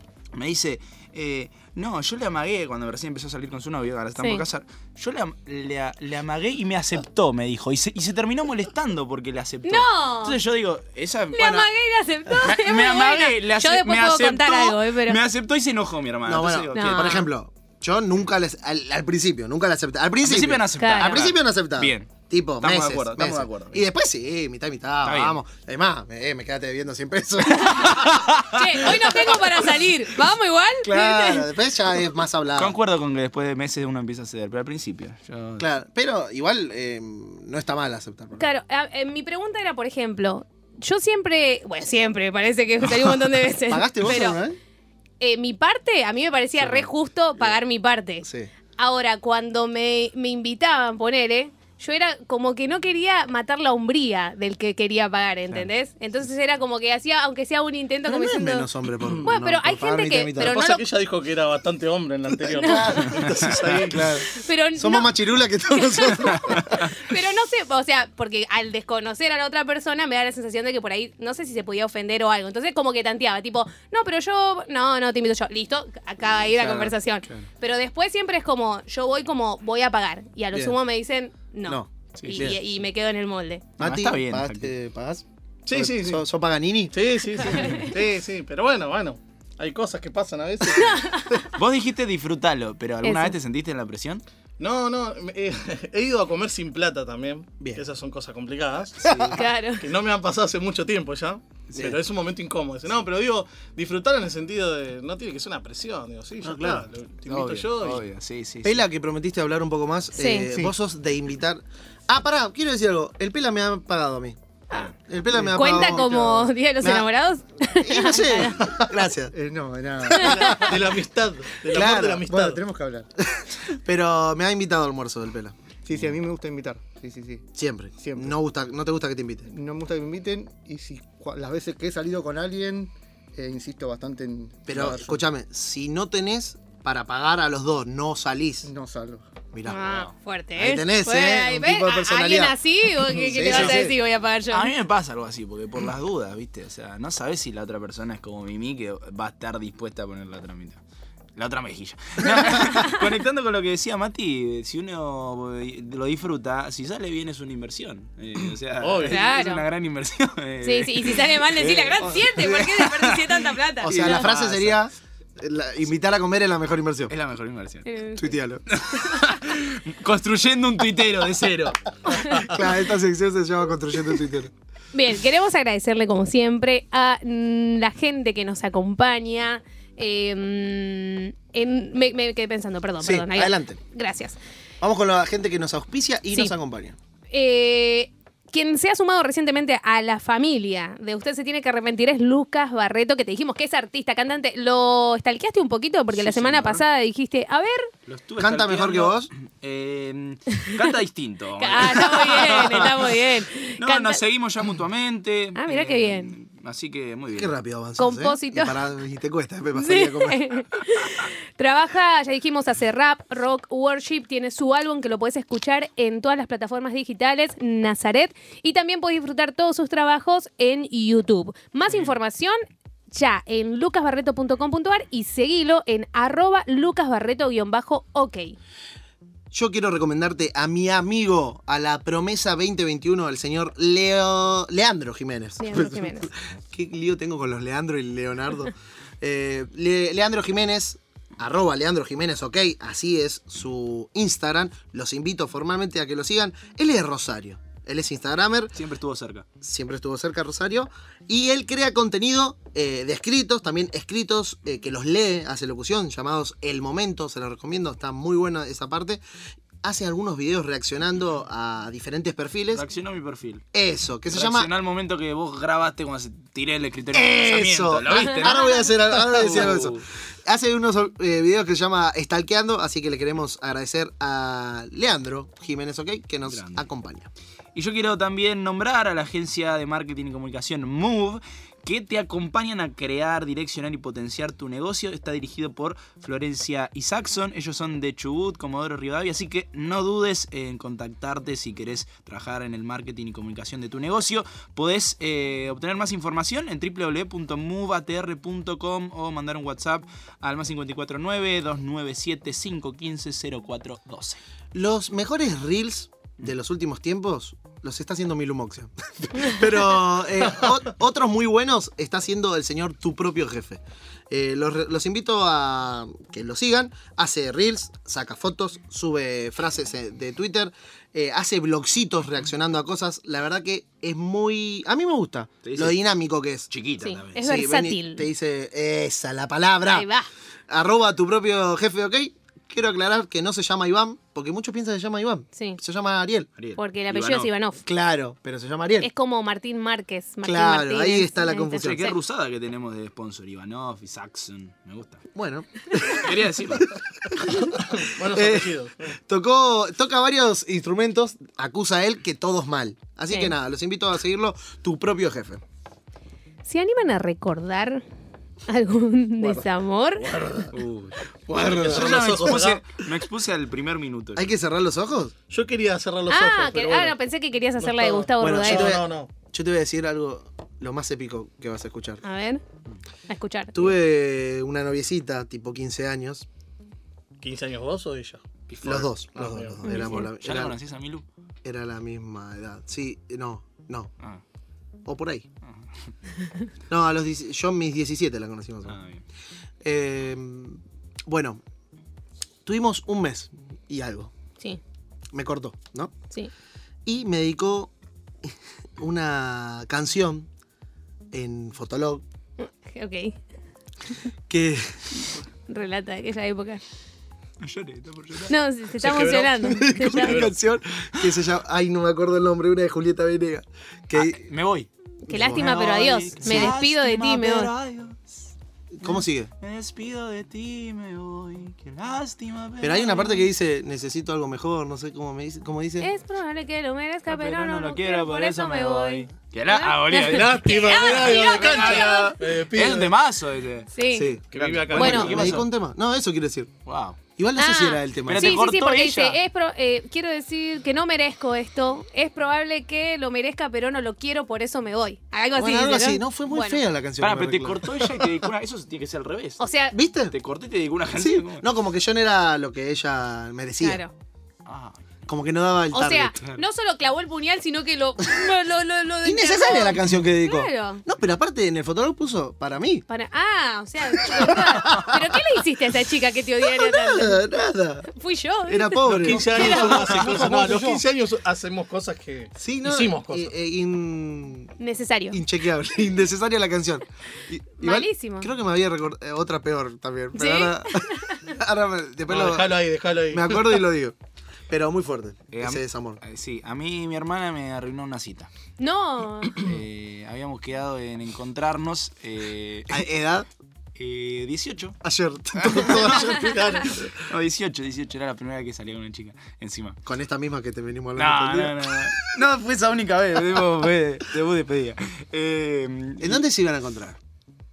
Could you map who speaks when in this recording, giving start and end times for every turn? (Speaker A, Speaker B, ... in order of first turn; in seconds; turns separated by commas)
Speaker A: 0.3-11.6, Speaker B: 4.2-4.4, Speaker B: 9.7-10.4, Speaker B: 11.3-15.2, Speaker C: 11.4-11.7, Speaker A: 12.4-17.2, Speaker C: 16.3-28.3, Speaker B: 16.7-17.3, Speaker A: 20.2-23.9, Speaker B: 20.8-21.2, Speaker A: 25.1-25.4, Speaker B: 27.5-31.5, Speaker A: 27.6-29.0, Speaker C: 30.8-32.8, Speaker A: 32.6-35.7, Speaker C: 35.6-38.4, Speaker B: 38.4-44.4, Speaker C: 43.7-44.6, Speaker B: 45.2-48.3, Speaker C: 48.2-48.5, Speaker B: 48.8-58.7, Speaker C: 58.0-60.6, Speaker B: 59.2-60.9, Speaker D: 60.4-64.0, Speaker B: 62.5-63.2, Speaker C: 62.6-66.9, Speaker A: 63.5-64.2, Speaker B: 64.3-83.7, Speaker C: 76.6-77.4, Speaker C: 81.7-82.6, Speaker A: 82.2-82.6, Speaker A: 83.8-84.7, Speaker C: 83.8-87.0, Speaker D: 85.7-86.2, Speaker D: 86.9-91.2, Speaker B: 87.5-87.9, Speaker B: 90.8-91.5, Speaker A: 91.5-94.2, Speaker B: 93.0-93.3, Speaker D: 94.6-108.0, Speaker C: 97.6-97.9, Speaker C: 99.0-99.4, Speaker B: 99.3-99.8, Speaker C: 101.7-102.0, Speaker C: 106.4-106.9, Speaker A: 107.3-108.8, Speaker C: 108.6-114.4, Speaker B: 110.2-110.5, Speaker B: 114.7-118.7, Speaker C: 115.0-116.2, Speaker E: 115.6-116.5, Speaker C: 116.8-117.1, Speaker C: 117.7-119.3, Speaker E: 119.3-120.7, Speaker C: 120.1-120.8, Speaker B: 120.2-120.6, Speaker D: 120.5-122.6, Speaker C: 121.7-122.3, Speaker E: 121.8-123.1, Speaker C: 123.3-125.6, Speaker E: 125.9-128.4, Speaker C: 127.5-129.5, Speaker E: 129.5-135.2, Speaker C: 134.7-138.7, Speaker E: 138.7-139.2, Speaker C: 139.5-139.9, Speaker B: 139.7-144.7, Speaker C: 140.6-142.6, Speaker C: 143.1-144.0, Speaker A: 143.5-143.9, Speaker A: 144.5-150.8, Speaker A: 151.4-164.8, Speaker B: 152.5-153.0, Speaker D: 158.8-159.2, Speaker B: 159.1-159.6, Speaker B: 160.6-164.3, Speaker C: 163.8-167.1, Speaker A: 167.1-167.9, Speaker B: 167.9-168.3, Speaker C: 168.2-168.6, Speaker A: 168.7-172.5, Speaker B: 169.0-169.4, Speaker C: 172.4-174.5, Speaker B: 174.9-184.4, Speaker C: 183.0-183.8, Speaker C: 184.8-187.0, Speaker B: 187.3-197.9, Speaker A: 196.1-196.8, Speaker A: 198.1-203.2, Speaker C: 198.4-199.3, Speaker B: 201.6-204.2, Speaker A: 203.8-207.6, Speaker B: 205.6-206.3, Speaker C: 207.3-210.4, Speaker B: 208.0-208.8, Speaker B: 209.8-222.6, Speaker B: 223.1-228.6, Speaker C: 229.5-248.8, Speaker B: 235.6-236.3, Speaker A: 248.8-249.5, Speaker C: 249.6-259.2, Speaker C: 259.8-262.8, Speaker A: 262.7-263.6, Speaker C: 263.7-264.7, Speaker A: 264.3-270.0, Speaker C: 267.1-277.3, Speaker B: 268.1-268.5, Speaker A: 276.5-276.9, Speaker A: 277.8-304.4, Speaker C: 304.7-326.7, Speaker A: 325.6-326.0, Speaker A: 326.7-327.5, Speaker B: 327.0-328.3, Speaker C: 327.4-330.1, Speaker B: 329.9-330.3, Speaker C: 330.7-336.5, Speaker B: 335.6-335.8, Speaker A: 336.6-337.5, Speaker B: 336.8-337.8, Speaker C: 337.9-339.1, Speaker B: 339.0-342.2, Speaker C: 340.4-342.1, Speaker A: 341.8-345.2, Speaker C: 345.4-346.2, Speaker A: 346.1-347.0, Speaker C: 346.8-355.6, Speaker D: 347.7-349.1, Speaker B: 356.7-358.0, Speaker B: 358.7-360.6, Speaker D: 359.4-359.7, Speaker D: 360.2-360.7, Speaker A: 360.7-364.5, Speaker C: 361.5-362.4, Speaker D: 361.5-363.0, Speaker C: 364.4-365.3, Speaker D: 365.5-367.1, Speaker B: 366.3-369.0, Speaker D: 367.8-369.3, Speaker C: 368.4-372.2, Speaker B: 372.2-372.6, Speaker B: 373.3-373.9, Speaker C: 373.7-376.5, Speaker D: 377.4-379.8, Speaker A: 378.7-379.1, Speaker C: 378.8-380.8, Speaker B: 379.8-380.3, Speaker A: 380.0-381.2, Speaker C: 381.6-384.1, Speaker C: 385.1-385.5, Speaker C: 386.9-389.0, Speaker A: 388.9-389.2, Speaker C: 389.8-391.6, Speaker C: 392.6-394.3, Speaker C: 395.3-396.1, Speaker C: 397.1-397.9, Speaker C: 398.4-400.5, Speaker C: 401.3-402.2, Speaker B: 402.6-403.4, Speaker C: 404.5-405.3, Speaker B: 405.7-406.8, Speaker A: 407.6-408.5, Speaker B: 408.5-410.4, Speaker D: 409.0-410.5, Speaker C: 409.6-414.4, Speaker A: 414.1-414.9, Speaker B: 415.2-417.7, Speaker C: 415.3-415.8, Speaker A: 415.4-418.5, Speaker C: 416.4-416.8, Speaker C: 418.9-419.5, Speaker A: 419.0-423.3, Speaker C: 422.8-426.1, Speaker B: 426.0-432.4, Speaker A: 427.3-433.9, Speaker D: 430.2-433.1, Speaker B: 433.9-434.4, Speaker C: 434.1-436.7, Speaker D: 434.5-435.6, Speaker A: 434.5-435.7, Speaker A: 436.9-437.2, Speaker C: 437.4-438.6, Speaker B: 437.6-446.8, Speaker A: 438.3-439.4, Speaker C: 445.5-448.1, Speaker A: 447.2-449.6, Speaker B: 449.6-449.9, Speaker C: 449.9-450.4, Speaker A: 450.3-451.7, Speaker C: 451.1-454.0, Speaker B: 453.8-454.1, Speaker A: 454.7-455.0, Speaker C: 455.3-456.4, Speaker B: 455.9-461.0, Speaker C: 459.2-463.1, Speaker B: 463.1-467.4, Speaker C: 464.1-465.4, Speaker C: 466.7-468.1, Speaker B: 468.1-470.2, Speaker C: 468.7-470.2, Speaker D: 469.1-473.5, Speaker E: 469.8-471.0, Speaker C: 472.6-474.7, Speaker B: 474.8-475.4, Speaker C: 475.3-484.1, Speaker B: 477.8-478.5, Speaker B: 480.3-481.4, Speaker D: 482.3-483.8, Speaker C: 484.7-486.2, Speaker A: 485.5-488.5, Speaker B: 488.8-489.7, Speaker A: 489.6-493.0, Speaker C: 492.9-493.5, Speaker A: 494.0-495.0, Speaker C: 495.0-497.1, Speaker A: 495.6-496.1, Speaker D: 495.7-497.1, Speaker A: 497.3-500.0, Speaker C: 500.1-502.1, Speaker A: 501.2-506.4, Speaker C: 506.2-507.2